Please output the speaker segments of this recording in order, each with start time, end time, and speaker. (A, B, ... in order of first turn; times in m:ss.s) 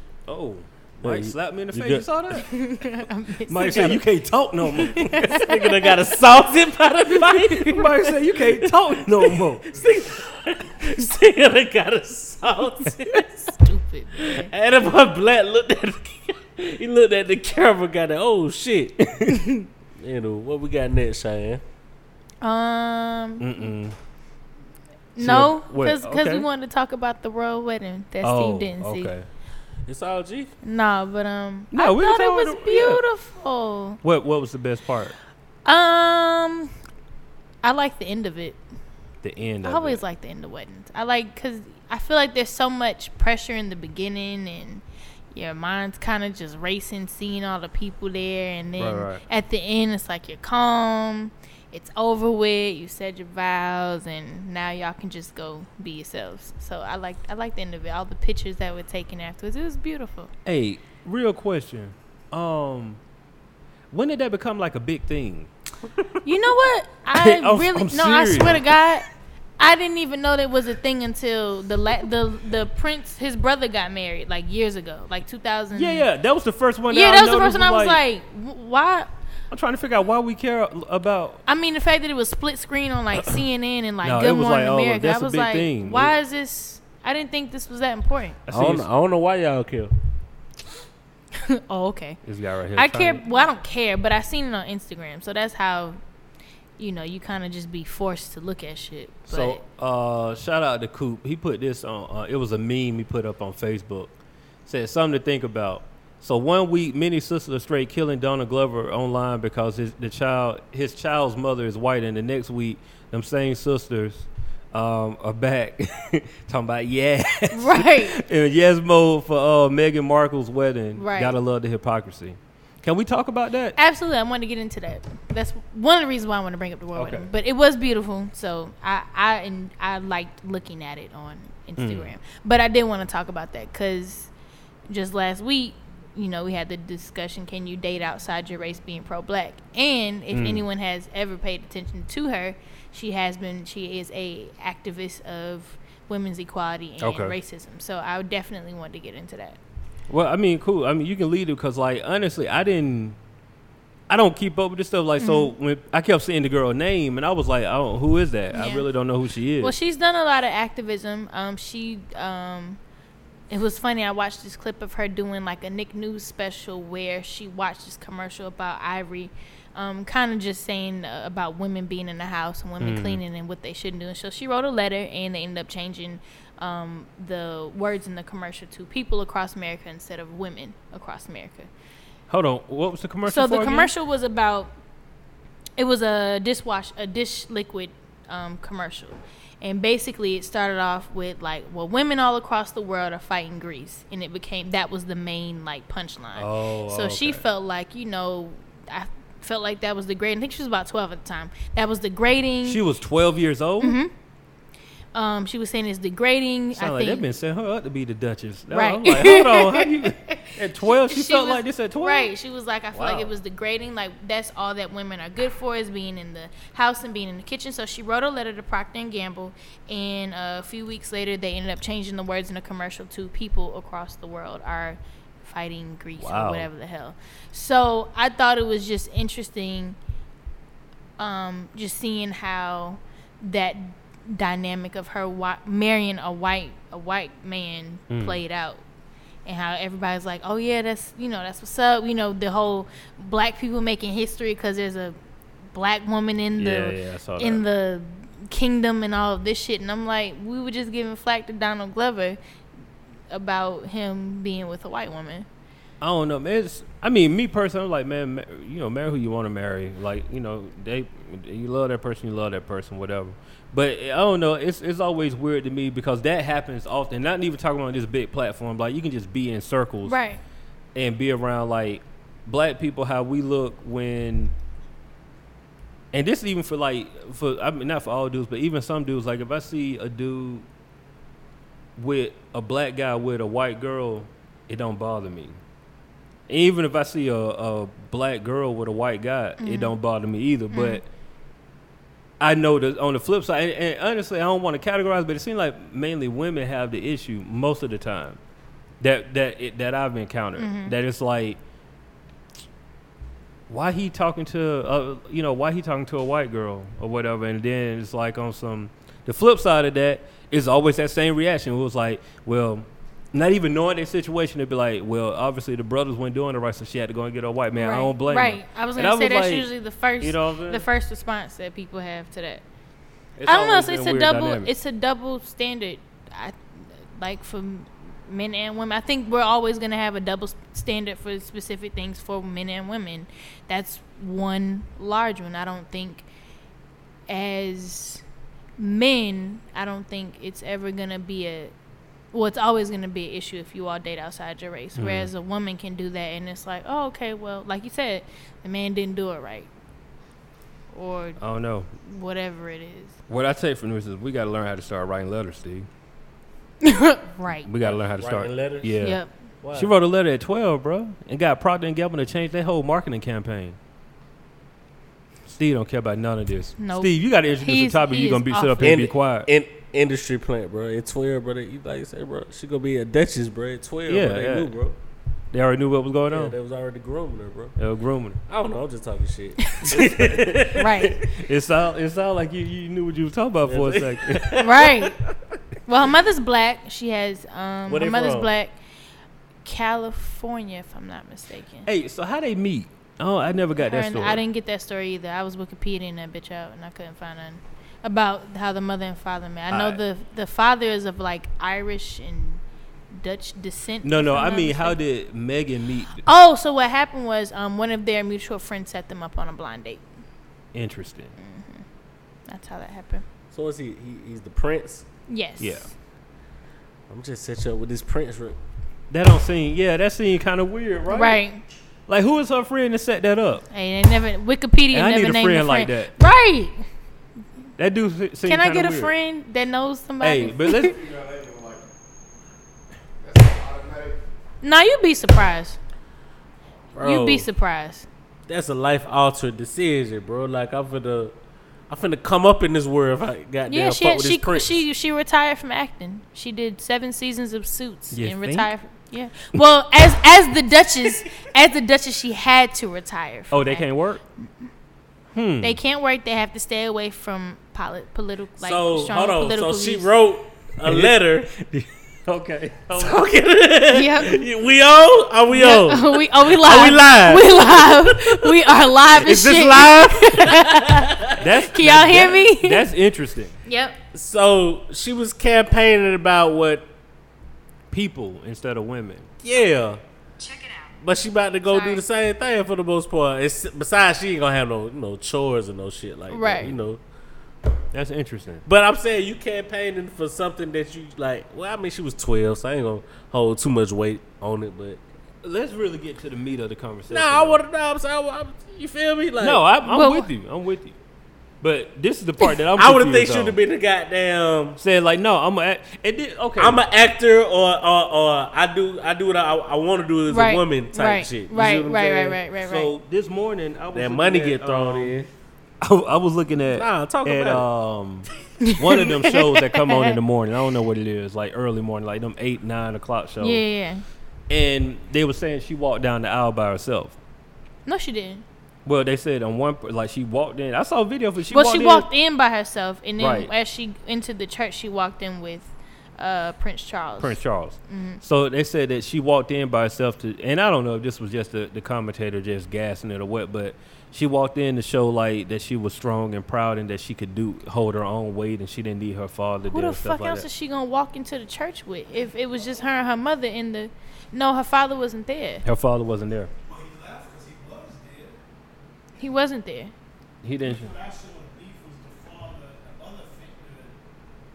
0:00.3-0:02.5 A
0:01.0-0:02.1 B
0:02.3-0:04.0 C
0:03.5-0:05.5 A
0:03.7-0:04.0 B
0:04.8-0:05.9 C
0:05.2-0:13.5 B
0:07.3-0:09.7 A
0:13.5-0:14.5 C
0:14.2-0:19.1 B
0:19.0-0:19.4 A
0:19.3-0:19.6 C
0:20.0-0:21.6 B
0:22.4-0:23.5 C
0:23.4-0:24.0 A
0:25.2-0:29.1 C
0:25.2-0:26.5 A
0:28.2-0:29.3 A
0:29.9-0:30.5 B
0:30.6-0:34.0 C
0:31.7-0:33.0 A
0:34.0-0:35.2 A
0:35.6-0:36.7 C
0:37.6-0:38.6 C
0:39.2-0:40.0 A
0:39.6-1:00.3 C
0:48.8-0:49.2 A
1:00.5-1:03.0 A
1:03.9-1:05.5 A
1:06.2-1:09.0 C
1:07.2-1:08.8 A
1:09.6-1:16.1 C
1:15.7-1:18.0 A
1:16.9-1:19.1 C
1:19.5-1:21.4 A
1:21.5-1:28.4 C
1:24.0-1:26.2 A
1:28.5-1:28.9 A
1:28.5-1:29.9 B
1:31.4-1:32.2 C
1:32.2-1:33.2 A
1:32.8-1:36.0 C
1:36.8-1:39.6 C
1:39.3-1:44.1 A
1:44.7-2:03.8 A
1:57.5-1:58.2 C
2:01.0-2:01.4 C
2:03.8-2:14.3 C
2:07.0-2:07.3 A
2:11.8-2:12.1 A
2:14.9-2:29.6 C
2:20.3-2:20.6 A
2:27.0-2:27.4 A
2:30.1-2:33.2 A
2:34.1-2:39.8 A
2:35.2-2:35.5 C
2:38.5-2:38.9 C
2:39.6-2:42.8 C
2:43.5-3:01.7 C
2:52.8-2:53.2 A
3:02.3-3:03.9 A
3:03.3-3:04.7 C
3:05.8-3:22.8 C
3:16.4-3:17.4 A
3:22.6-3:24.0 A
3:23.8-3:24.1 C
3:25.1-3:27.2 C
3:26.8-3:32.3 A
3:28.7-3:50.0 C
3:32.9-3:33.3 A
3:46.2-3:46.7 A
3:51.2-3:58.8 C
3:58.1-3:58.4 A
3:59.4-4:05.2 C
4:05.7-4:12.4 C
4:06.6-4:07.6 A
4:13.3-4:15.5 C
4:16.0-4:30.2 A
4:30.0-4:30.4 C
4:31.0-4:34.5 A
4:36.1-4:40.7 A
4:42.0-4:45.6 A
4:46.5-4:51.0 A
4:49.6-4:50.0 C
4:50.7-4:51.0 C
4:52.4-4:58.4 A
4:59.0-5:01.6 A
5:00.6-5:01.0 C
5:03.7-5:19.7 A
5:17.8-5:22.6 C
5:20.2-5:20.9 A
5:23.4-5:24.7 A
5:23.4-5:36.3 C
5:37.3-5:38.2 C
5:38.8-5:41.7 C
5:42.3-5:49.7 C
5:45.0-5:45.3 A
5:50.9-5:51.4 C
5:51.4-5:51.9 A
5:52.0-5:53.2 C
5:53.3-5:55.9 A
5:56.8-5:57.7 C
5:57.6-5:59.2 A
5:57.8-5:59.0 B
5:59.0-5:59.3 C
5:59.6-5:59.9 B
5:59.7-6:03.8 A
6:05.5-6:09.5 A
6:06.8-6:09.0 C
6:08.8-6:15.0 B
6:14.1-6:14.7 A
6:15.5-6:16.6 A
6:16.3-6:17.8 B
6:17.8-6:18.4 A
6:18.5-6:21.1 B
6:19.9-6:24.7 A
6:20.7-6:21.3 C
6:23.7-6:25.4 B
6:24.6-6:25.2 C
6:25.9-6:28.8 C
6:27.9-6:28.5 B
6:29.6-6:31.9 C
6:31.9-6:34.4 A
6:33.8-6:45.0 C
6:39.7-6:40.0 A
6:44.0-6:46.2 A
6:46.2-6:50.0 C
6:50.7-6:51.3 A
6:51.4-6:51.8 C
6:52.5-6:53.2 C
6:53.5-6:55.0 B
6:55.3-6:55.9 C
6:55.6-6:55.9 A
6:57.1-6:58.6 B
6:59.1-7:01.4 A
7:01.1-7:01.6 C
7:02.1-7:03.6 A
7:03.7-7:06.8 C
7:04.9-7:06.1 A
7:07.8-7:09.1 A
7:08.4-7:10.9 C
7:10.2-7:11.0 A
7:10.6-7:11.9 D
7:13.2-7:14.2 D
7:14.6-7:15.8 C
7:17.0-7:17.5 B
7:17.0-7:18.1 C
7:18.5-7:21.3 B
7:21.9-7:24.8 B
7:23.7-7:33.9 C
7:28.1-7:28.7 A
7:33.5-7:34.2 A
7:35.3-7:35.8 A
7:35.6-7:40.1 C
7:38.6-7:41.6 B
7:40.9-7:43.2 A
7:43.0-7:48.6 B
7:43.9-7:44.4 C
7:45.5-7:52.9 C
7:49.2-7:49.9 A
7:49.3-7:51.2 B
7:51.4-7:53.6 A
7:53.7-7:54.0 C
7:54.1-7:56.8 B
7:57.9-7:59.3 A
7:59.4-8:00.0 B
8:00.4-8:00.8 C
8:01.0-8:07.0 B
8:01.7-8:02.0 C
8:06.3-8:06.7 C
8:07.9-8:08.7 A
8:08.7-8:15.0 B
8:15.4-8:17.6 A
8:17.1-8:19.6 B
8:19.4-8:21.0 A
8:19.8-8:20.3 C
8:21.6-8:23.6 A
8:22.8-8:24.8 B
8:24.8-8:26.8 A
8:26.6-8:32.4 B
8:30.3-8:32.9 C
8:32.6-8:35.2 A
8:33.9-8:35.3 B
8:35.8-8:43.6 A
8:36.7-8:37.7 B
8:38.6-8:40.2 C
8:43.4-8:44.0 C
8:44.5-8:47.2 A
8:47.9-8:48.4 C
8:48.8-8:52.1 A
8:51.5-8:58.2 C
8:53.2-8:53.5 A
8:57.2-9:10.5 A
9:09.7-9:15.6 C
9:15.6-9:16.5 A
9:16.6-9:18.4 E
9:19.2-9:19.9 C
9:20.4-9:21.0 A
9:20.6-9:24.0 E